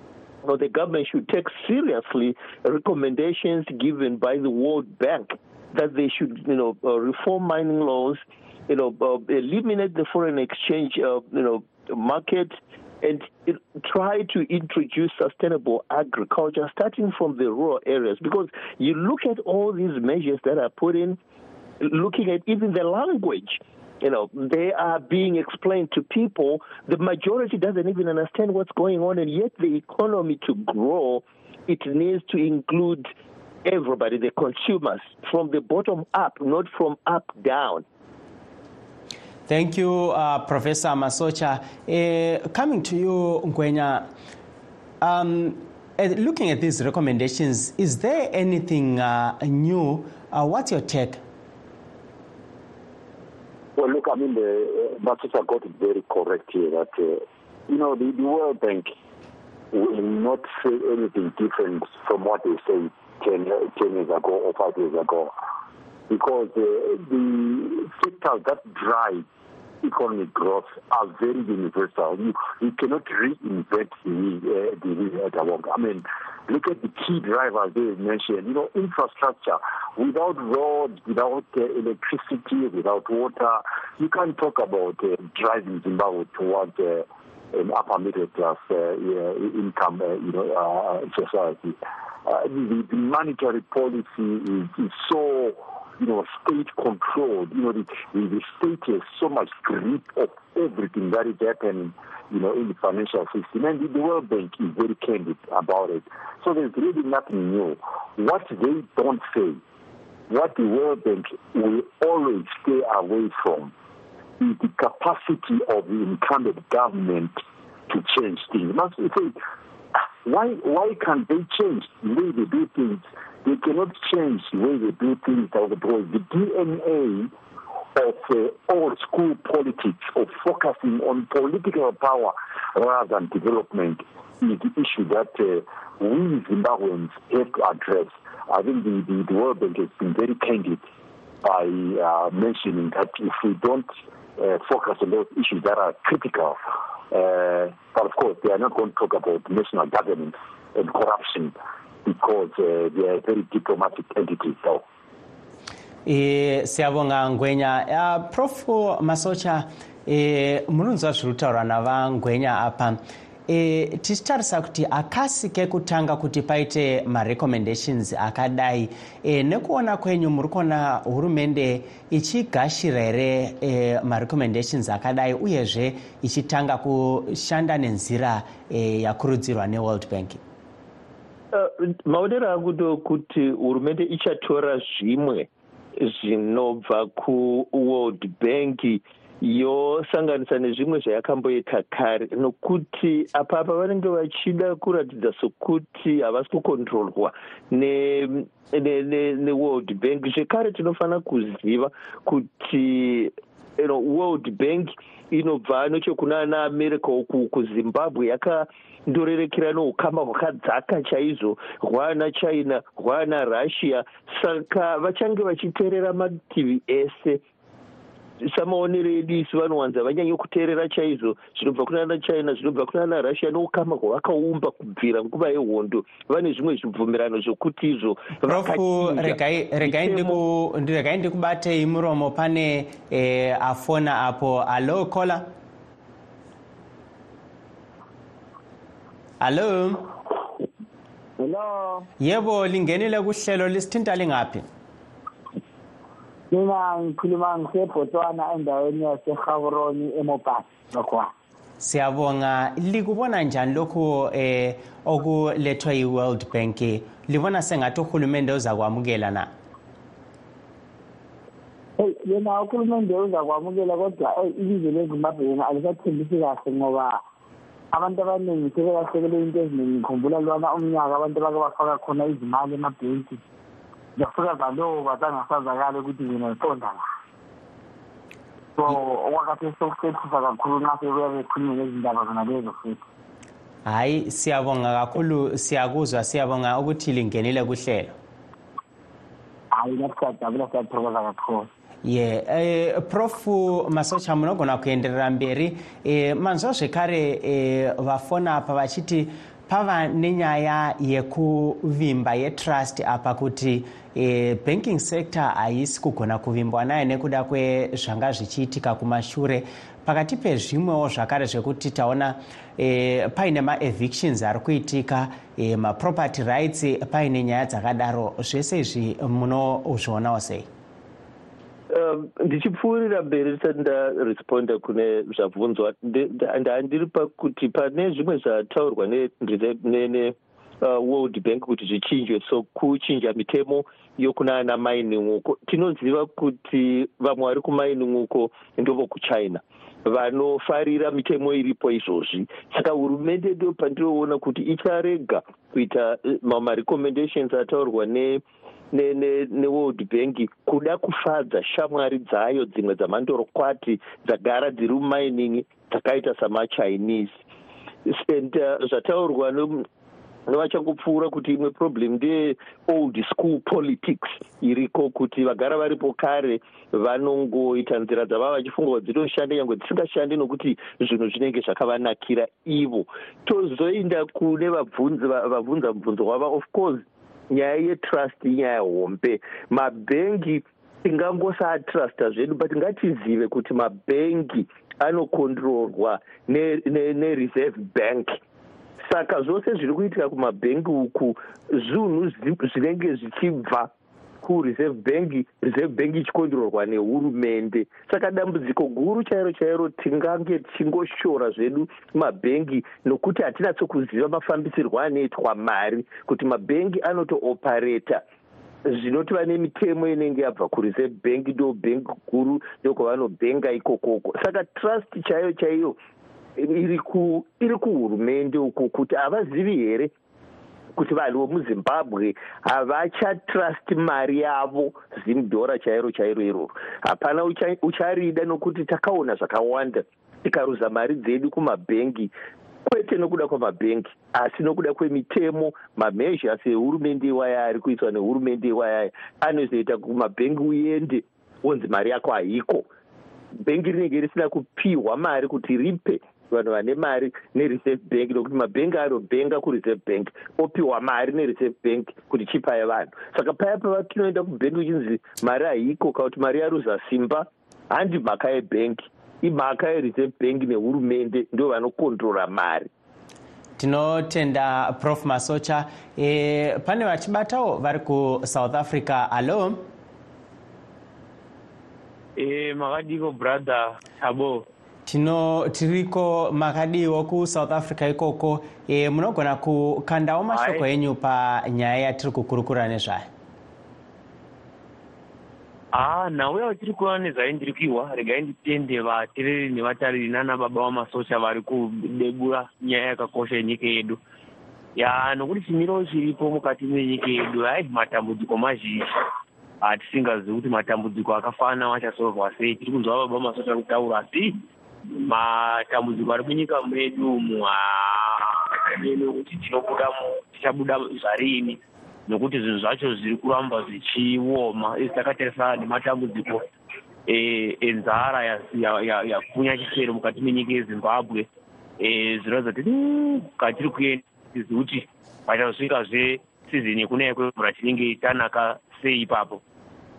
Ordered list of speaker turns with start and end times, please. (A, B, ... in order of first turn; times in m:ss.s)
0:00.4-0:21.2 A
0:21.8-0:33.1 A
0:33.6-0:37.8 A
0:39.5-0:44.1 B
0:45.0-0:51.2 B
0:53.8-0:58.9 C
0:59.7-1:05.3 C
1:06.1-1:09.2 C
1:09.8-1:49.6 C
1:50.3-1:53.7 C
1:54.4-1:59.4 C
2:00.2-2:07.3 C
2:08.0-2:20.8 C
2:21.4-2:26.6 C
2:27.1-2:31.5 C
2:32.0-2:34.8 C
2:36.0-3:00.4 B
3:01.5-3:37.4 A
3:38.4-3:50.4 A
3:48.4-3:55.5 B
3:59.4-4:00.1 B
4:01.4-4:02.1 D
4:02.2-4:04.6 B
4:06.5-4:11.3 D
4:11.8-4:19.5 B
4:22.0-4:27.2 D
4:27.9-4:33.4 D
4:34.2-4:37.0 D
4:38.8-4:43.0 D
4:43.8-4:48.1 B
4:49.7-4:51.7 D
4:52.0-5:20.7 B
5:21.9-5:57.3 A
5:58.0-5:59.8 A
6:00.5-6:28.4 A
6:29.0-6:33.9 A
6:34.4-6:48.2 A
6:48.8-6:56.0 A
6:56.6-7:00.1 A
7:00.9-7:12.3 A
7:12.8-7:22.9 A
7:23.6-7:42.9 A
7:43.8-7:49.9 B
7:52.4-7:54.6 E
7:55.0-8:03.3 B
8:00.5-8:00.8 E
8:05.9-8:14.2 E
8:15.0-8:19.1 E
8:19.8-8:24.6 E
8:25.2-8:36.6 E
8:37.3-8:41.5 E
8:42.0-8:49.6 E